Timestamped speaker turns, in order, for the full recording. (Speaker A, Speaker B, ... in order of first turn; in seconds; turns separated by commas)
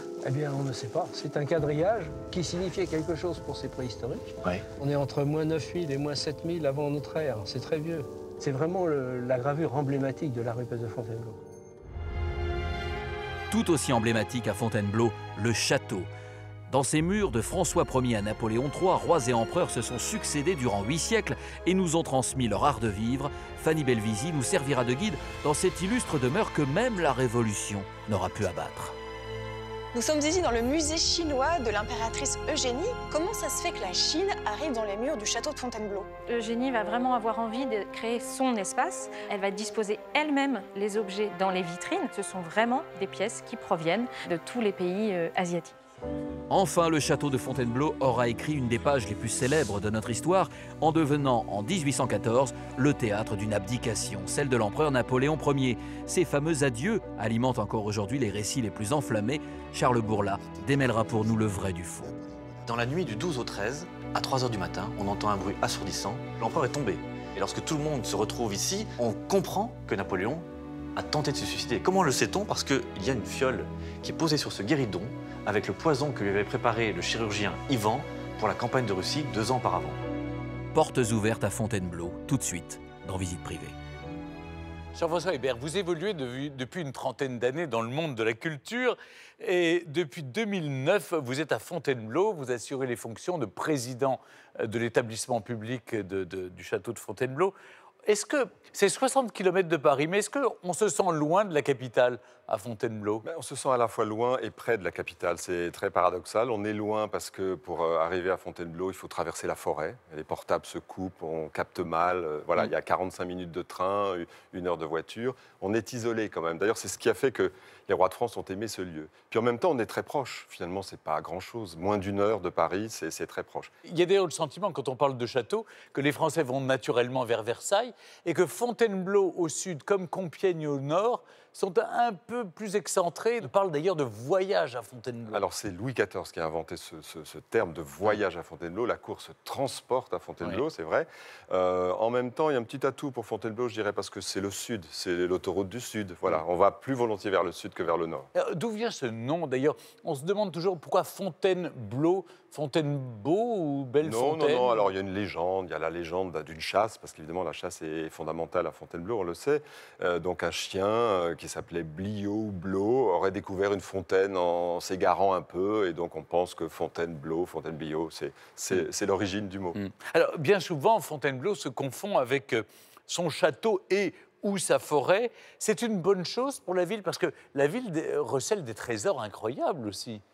Speaker A: 0.2-11.4, Speaker B: 13.5-16.1, Speaker B: 16.7-28.9, Speaker C: 29.9-36.1, Speaker D: 36.3-45.8, Speaker B: 46.5-62.1, Speaker E: 62.6-80.0, Speaker B: 80.7-83.7, Speaker F: 84.9-97.5, Speaker F: 98.1-103.2, Speaker G: 103.2-123.7, Speaker F: 123.8-135.4, Speaker G: 135.3-148.3, Speaker F: 148.3-154.8, Speaker G: 154.0-169.8, Speaker F: 169.7-180.2